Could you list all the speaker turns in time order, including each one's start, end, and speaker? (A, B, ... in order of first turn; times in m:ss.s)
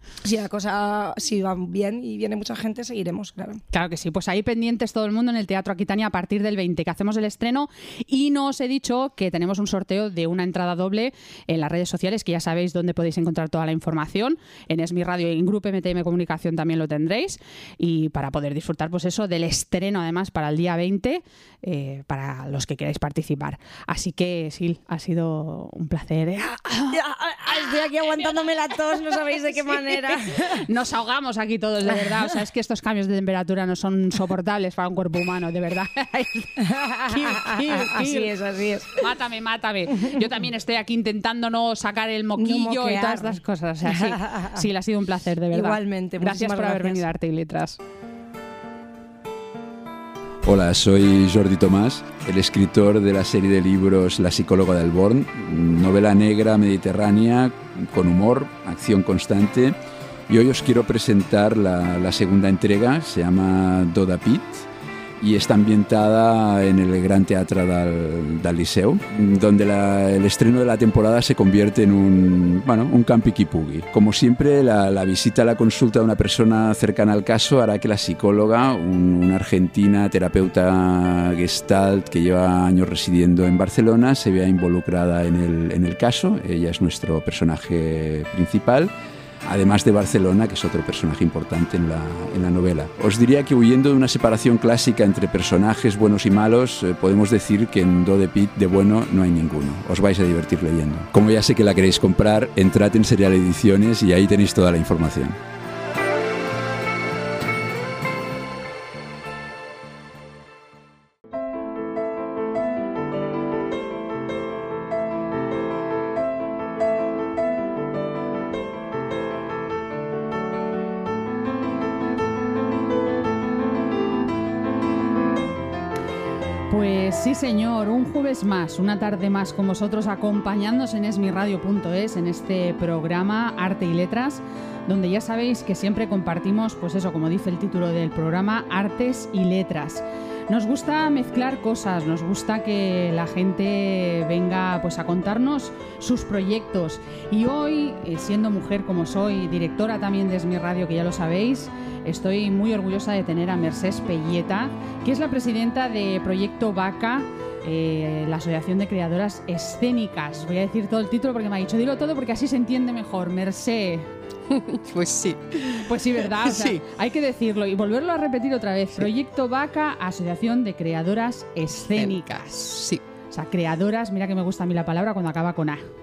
0:00.2-0:03.6 A
0:03.7-0:27.0 B
0:26.9-0:30.6 A
0:29.9-0:38.3 B
0:36.6-0:39.0 A
0:39.0-0:47.8 B
0:42.4-0:44.6 A
0:45.5-0:47.0 A
0:50.4-0:59.7 C
1:00.3-1:04.6 C
1:05.2-1:28.9 C
1:29.4-1:45.4 C
2:06.7-2:44.1 B
2:44.5-2:46.8 D
2:45.8-2:52.6 B
2:51.9-2:53.0 D
2:53.3-2:55.8 B